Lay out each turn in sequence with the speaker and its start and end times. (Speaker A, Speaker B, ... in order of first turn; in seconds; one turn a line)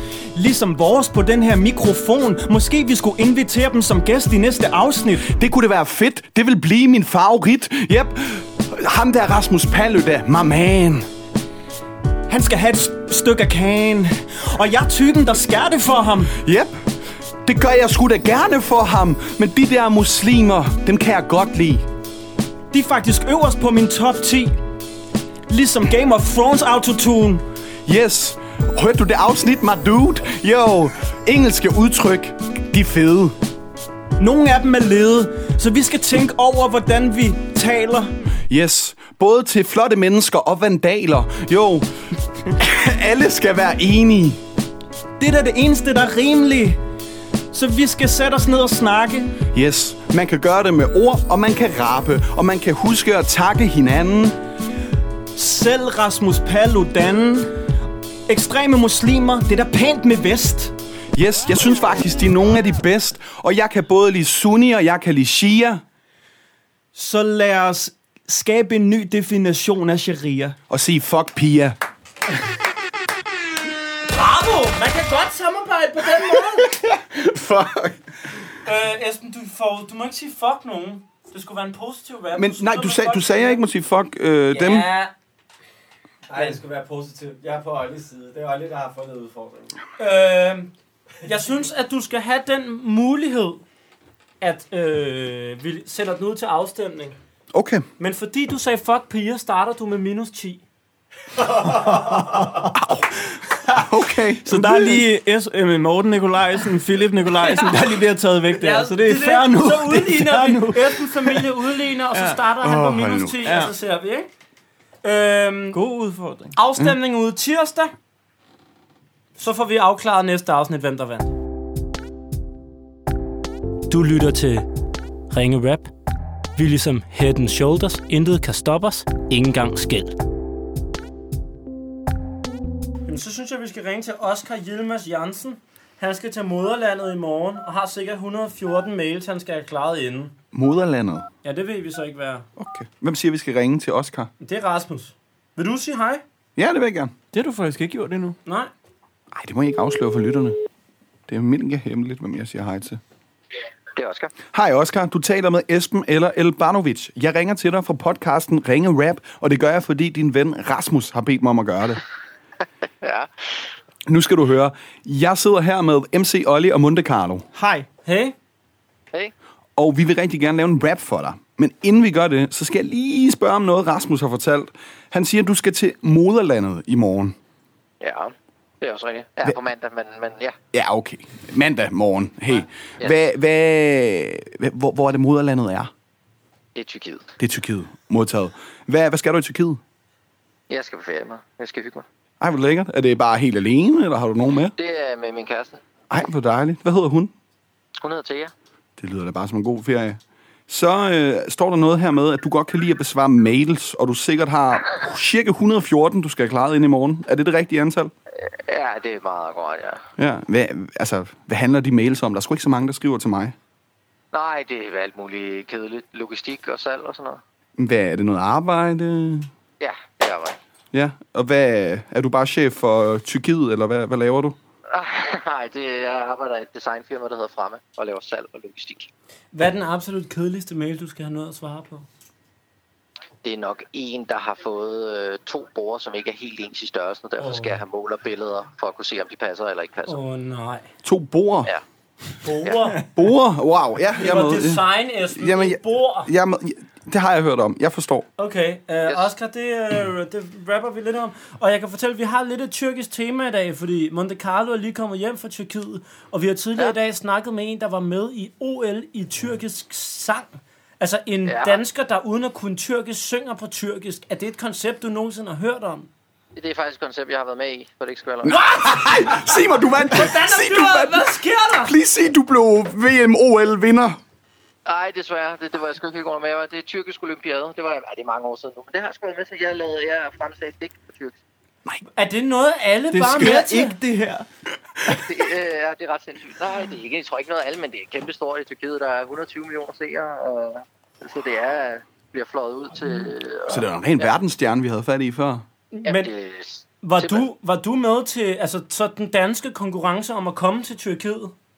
Speaker A: 0.3-5.3
Speaker B: 5.3-11.1
Speaker A: 12.3-16.3
Speaker B: 16.4-16.7
Speaker B: 17.4-21.9
Speaker A: 22.7-24.6
Speaker A: 25.5-27.4
Speaker B: 27.9-33.4
Speaker A: 34.2-38.1
Speaker B: 38.5-41.9
Speaker B: 42.5-44.4
Speaker A: 45.2-46.8
Speaker A: 47.5-49.4
Speaker B: 49.5-54.4
Speaker A: 55.4-57.5
Speaker A: 58.3-60.7
Speaker B: 61.1-65.8
Speaker A: 67.0-70.6
Speaker B: 70.7-71.8
Speaker C: 74.1-76.7
Speaker B: 76.8-78.0
Speaker C: 78.6-83.6
Speaker B: 82.3-84.9
Speaker C: 84.5-85.1
Speaker D: 86.3-89.7
Speaker C: 90.0-90.7
Speaker C: 91.2-93.6
Speaker C: 94.4-97.2
Speaker B: 97.5-97.8
Speaker C: 98.0-100.6
Speaker B: 102.8-103.1
Speaker B: 103.8-105.0
Speaker A: 104.5-111.5
Speaker C: 108.6-114.3
Speaker A: 112.1-112.4
Speaker B: 112.6-113.5
Speaker A: 113.4-113.7
Speaker C: 115.0-115.8
Speaker A: 115.7-116.5
Speaker C: 116.5-117.9
Speaker C: 119.4-121.3
Speaker C: 123.9-124.7
Speaker C: 125.3-125.9
Speaker C: 126.6-130.2
Speaker C: 133.1-140.3
Speaker B: 140.5-141.3
Speaker C: 141.4-142.5
Speaker B: 142.6-144.3
Speaker C: 144.4-146.2
Speaker B: 146.6-147.1
Speaker A: 147.3-148.4
Speaker C: 148.5-148.7
Speaker B: 149.3-150.6
Speaker B: 151.3-153.0
Speaker E: 153.9-154.3
Speaker B: 154.5-162.0
Speaker E: 163.0-163.7
Speaker B: 164.1-167.5
Speaker A: 167.6-167.9
Speaker C: 168.1-168.3
Speaker B: 169.8-177.4
Speaker E: 178.0-180.6
Speaker B: 180.7-185.9
Speaker E: 186.8-187.3
Speaker B: 187.4-189.8
Speaker E: 190.7-192.1
Speaker B: 192.4-194.7
Speaker E: 194.8-195.8
Speaker B: 196.1-197.3
Speaker E: 198.0-198.5
Speaker B: 199.0-208.1
Speaker E: 208.4-210.0
Speaker B: 210.2-213.6
Speaker E: 214.3-217.4
Speaker B: 217.8-219.5
Speaker E: 219.8-220.6
Speaker B: 220.9-224.6
Speaker E: 224.9-229.1
Speaker C: 229.5-232.1
Speaker E: 233.4-240.2
Speaker C: 237.4-237.8
Speaker C: 240.1-240.9
Speaker B: 241.0-241.7
Speaker C: 242.4-243.0
Speaker B: 243.0-248.3
Speaker C: 244.2-246.3
Speaker C: 248.4-266.1
Speaker E: 261.5-261.8
Speaker E: 266.6-268.6
Speaker B: 268.4-274.2
Speaker C: 270.1-271.9
Speaker E: 274.9-281.4
Speaker C: 282.1-284.0
Speaker A: 283.1-284.5
Speaker E: 285.1-294.3
Speaker B: 293.7-295.6
Speaker C: 295.9-296.3
Speaker E: 296.1-297.5
Speaker C: 297.0-301.5